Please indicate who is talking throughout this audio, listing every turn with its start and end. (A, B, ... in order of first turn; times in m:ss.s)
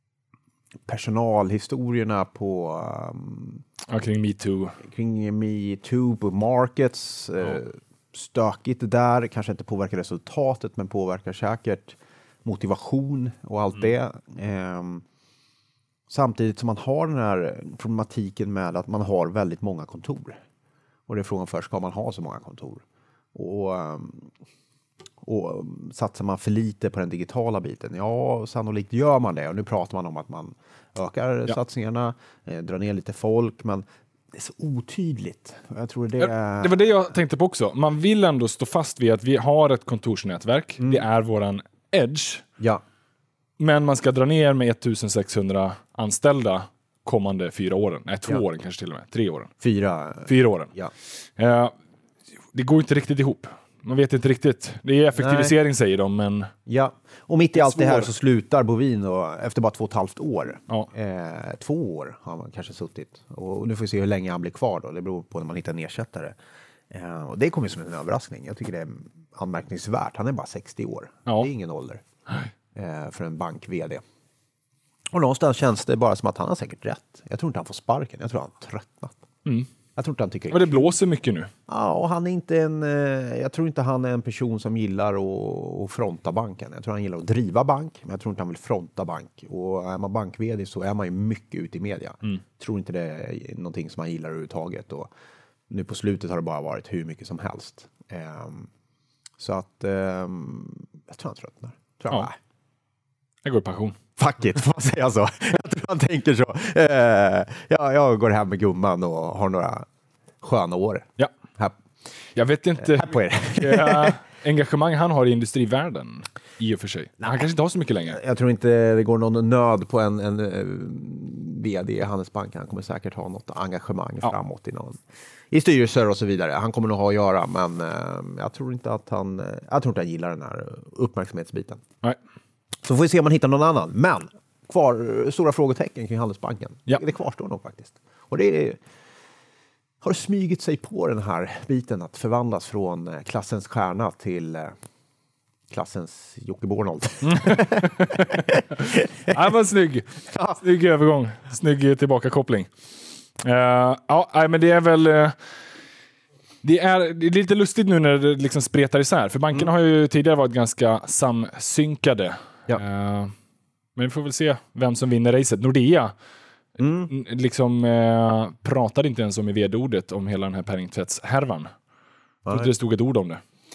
0:00.9-0:03.6 A
0:03.9-0:04.8 B
0:04.8-0:15.0 A
0:16.1-0:20.4 A
0:21.1-0:22.8 A
0:23.3-0:24.3 A
0:25.2-0:36.8 A
0:36.2-0:42.4 B
0:43.6-0:49.5 B
0:49.6-0:50.9 A
0:50.3-0:50.7 B
0:51.4-0:51.7 B
0:52.5-0:56.5 B
0:55.2-0:55.5 A
0:56.7-1:06.4 A
0:57.6-0:58.1 B
1:06.9-1:12.0 A
1:12.8-1:14.0 A
1:15.1-1:19.2 A
1:20.0-1:20.9 A
1:20.5-1:21.5 B
1:21.7-1:35.1 A
1:35.7-1:38.7 A
1:39.4-1:42.4 A
1:43.4-1:44.0 B
1:44.2-1:49.9 A
1:50.4-1:51.8 A
1:52.4-1:58.2 B
1:52.8-1:54.2 A
1:57.2-1:57.5 A
1:58.1-2:05.0 A
2:05.5-2:11.8 A
2:12.8-2:18.8 A
2:20.0-2:24.8 A
2:25.7-2:29.4 A
2:27.2-2:32.7 B
2:30.3-2:30.6 A
2:33.4-2:35.4 B
2:36.6-2:43.3 B
2:44.0-2:46.1 B
2:46.8-2:47.1 A
2:47.1-2:51.7 B
2:52.4-2:52.7 A
2:52.5-2:53.4 B